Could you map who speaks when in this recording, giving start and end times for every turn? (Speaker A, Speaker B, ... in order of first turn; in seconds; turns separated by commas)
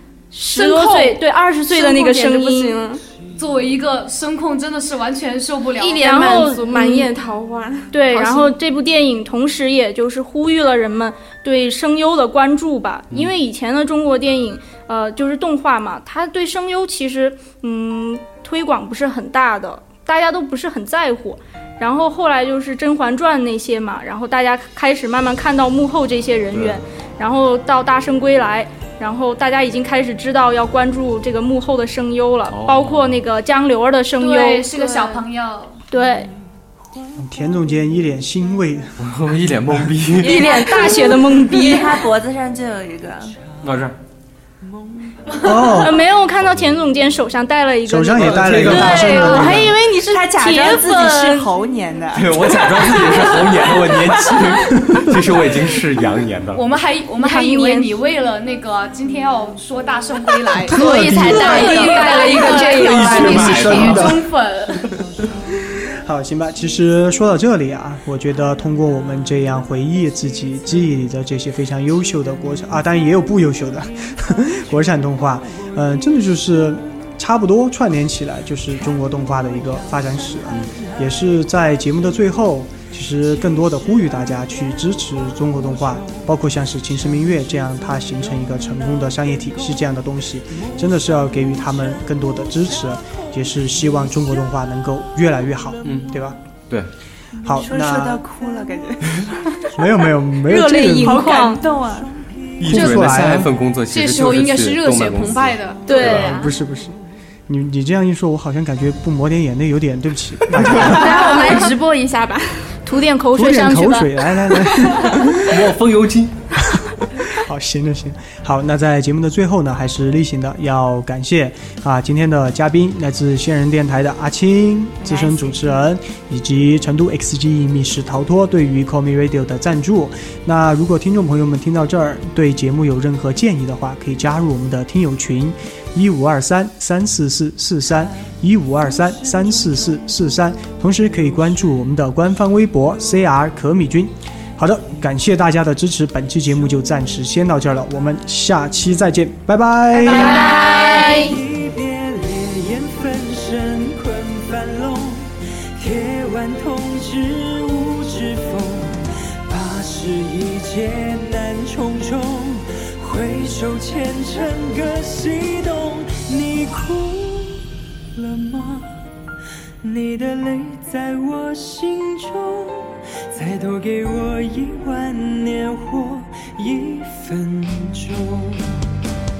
Speaker A: 0.3-2.8, Speaker B: 0.6-1.1, Speaker B: 1.7-3.0, Speaker C: 3.3-6.3, Speaker B: 5.8-8.5, Speaker A: 6.0-7.1, Speaker A: 7.9-34.7, Speaker D: 26.5-26.8, Speaker D: 32.5-33.2, Speaker C: 34.2-35.8, Speaker B: 34.8-35.1, Speaker A: 35.9-36.3, Speaker E: 37.1-39.1, Speaker D: 39.0-40.6, Speaker F: 40.2-43.4, Speaker A: 40.2-42.0, Speaker D: 43.6-44.0, Speaker E: 45.4-46.0, Speaker A: 45.6-51.5, Speaker D: 46.5-46.7, Speaker E: 47.9-49.8, Speaker D: 48.2-49.6, Speaker C: 48.9-49.4, Speaker F: 49.5-54.4, Speaker D: 52.1-56.6, Speaker E: 54.8-55.2, Speaker C: 56.5-64.9, Speaker A: 57.2-57.9, Speaker F: 60.5-61.3, Speaker E: 60.7-61.8, Speaker B: 60.7-63.0, Speaker A: 62.0-62.7, Speaker D: 62.7-64.2, Speaker E: 62.7-64.3, Speaker E: 66.0-96.4, Speaker D: 95.8-96.1, Speaker F: 97.4-100.0, Speaker E: 97.4-98.2, Speaker E: 99.7-101.3, Speaker A: 100.4-101.6, Speaker F: 100.9-102.1, Speaker D: 102.6-106.4, Speaker E: 102.7-103.5, Speaker C: 102.7-103.0, Speaker C: 103.9-106.4, Speaker A: 105.9-106.4, Speaker E: 105.9-111.3, Speaker D: 110.5-111.0, Speaker B: 110.7-112.7, Speaker A: 110.8-111.7, Speaker A: 112.8-114.1, Speaker E: 113.3-115.6, Speaker D: 115.4-116.6, Speaker E: 117.1-150.4, Speaker F: 125.0-125.8, Speaker B: 150.0-151.4, Speaker A: 150.2-151.3, Speaker G: 150.4-169.0, Speaker G: 169.8-178.8